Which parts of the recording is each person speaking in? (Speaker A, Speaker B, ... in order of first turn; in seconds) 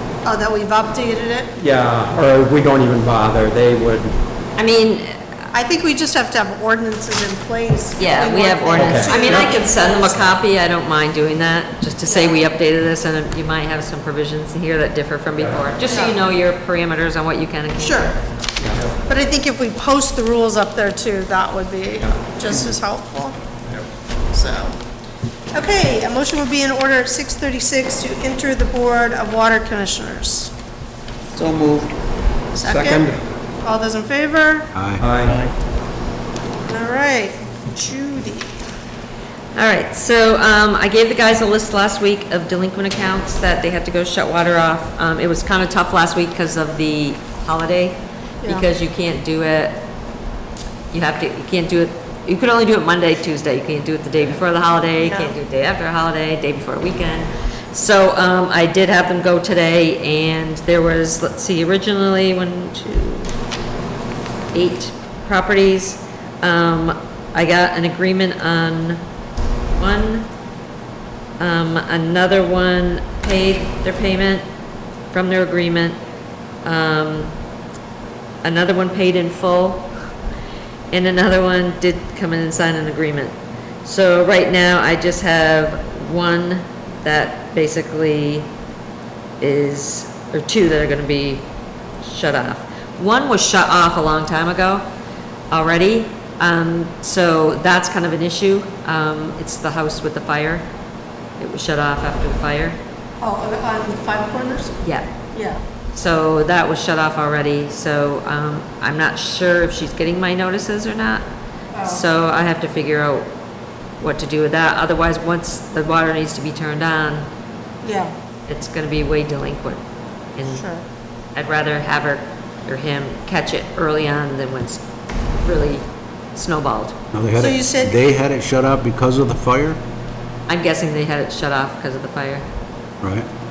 Speaker A: 0.2-1.5, 5.5-10.3, 12.1-12.4, 15.9-16.1, 17.8-18.1, 19.0-23.4, 24.3-24.8, 25.5-30.5, 32.5-33.0, 33.6-34.7, 36.7-38.5, 55.0-55.3, 103.2-104.8, 105.3-105.6, 111.7-112.0, 117.8-118.1, 120.5-120.8, 127.3-128.0
Speaker B: 1.6-4.1, 8.7-9.6, 18.6-18.9, 22.0-22.7, 32.6-33.2, 35.0-35.4
Speaker C: 4.5-5.2, 8.0-18.1, 39.5-49.8, 50.9-63.3, 64.5-69.0, 69.8-70.3, 71.4-74.4, 75.1-76.0, 76.6-77.3, 78.4-79.9, 80.9-88.5, 89.4-91.5, 92.0-94.8, 95.5-100.7, 101.4-102.8, 104.8-105.1, 105.9-111.2, 111.8-113.3, 114.0-117.3, 118.5-119.8, 120.3-120.7, 121.3-124.8, 125.4-125.8, 126.3-127.0, 130.5-132.4
Speaker D: 34.7-35.0, 127.1-129.8, 133.0-133.3